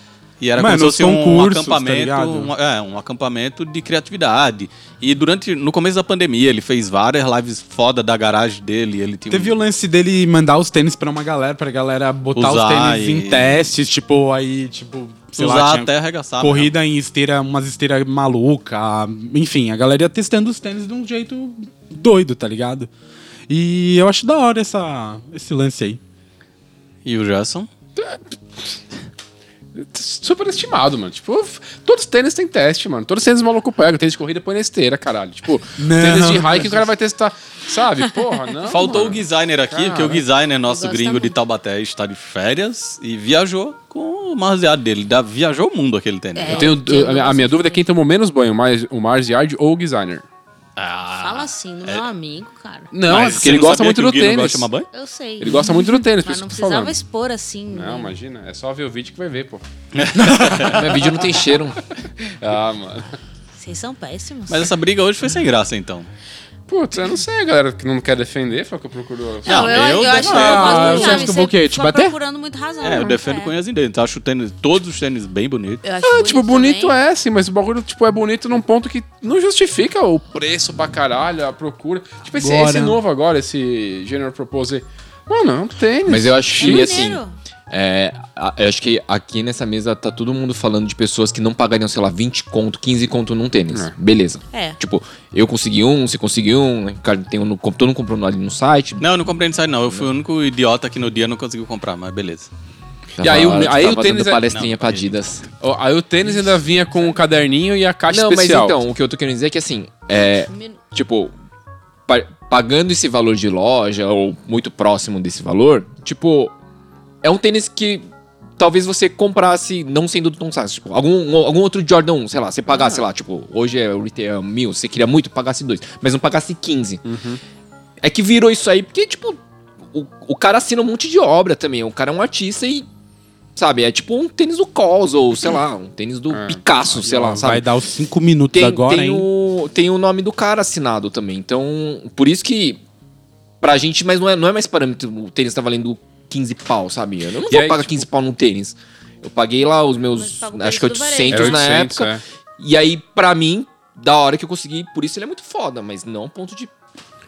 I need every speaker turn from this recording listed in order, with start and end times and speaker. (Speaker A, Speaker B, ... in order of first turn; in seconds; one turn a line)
Speaker A: 0.4-9.5
Speaker B: 0.6-2.5
Speaker B: 9.3-22.9
Speaker A: 12.4-13.6
Speaker A: 15.3-16.7
Speaker B: 23.5-26.0
Speaker A: 27.1-27.7
Speaker C: 29.8-40.2
Speaker B: 35.8-36.8
Speaker A: 38.7-46.8
Speaker D: 40.6-41.4
Speaker D: 46.4-47.8
Speaker C: 46.5-50.2
Speaker A: 50.8-52.0
Speaker D: 51.2-52.9
Speaker C: 52.9-54.7
Speaker A: 53.0-54.9
Speaker D: 54.9-58.1
Speaker C: 55.4-57.0
Speaker C: 57.7-59.6
Speaker A: 59.9-61.1
Speaker E: 60.3-61.8
Speaker C: 62.2-63.2
Speaker D: 63.5-64.7
Speaker A: 64.5-66.1
Speaker C: 66.7-70.1
Speaker A: 69.5-71.3
Speaker D: 69.5-73.5
Speaker B: 70.0-72.2
Speaker A: 72.8-75.8
Speaker D: 75.8-77.0
Speaker C: 76.0-87.1
Speaker B: 82.4-83.0
Speaker E: 86.1-99.1
Speaker D: 86.6-87.3
Speaker D: 94.5-94.8
Speaker A: 99.0-102.5
Speaker E: 103.2-105.4
Speaker C: 103.2-104.5
Speaker A: 104.5-105.5
Speaker C: 105.6-108.8
Speaker E: 108.1-111.3
Speaker D: 110.5-110.8
Speaker E: 112.1-116.5
Speaker E: 117.2-118.1
Speaker E: 118.6-127.0
Speaker D: 122.7-123.0
Speaker C: 127.0-127.4
Speaker E: 128.0-132.9
Speaker E: 133.6-137.7
Speaker C: 136.3-136.6
Speaker B: 137.0-139.3
Speaker E: 138.5-142.8
Speaker E: 143.6-156.7
Speaker C: 147.5-148.1
Speaker D: 150.2-151.7
Speaker C: 151.3-152.2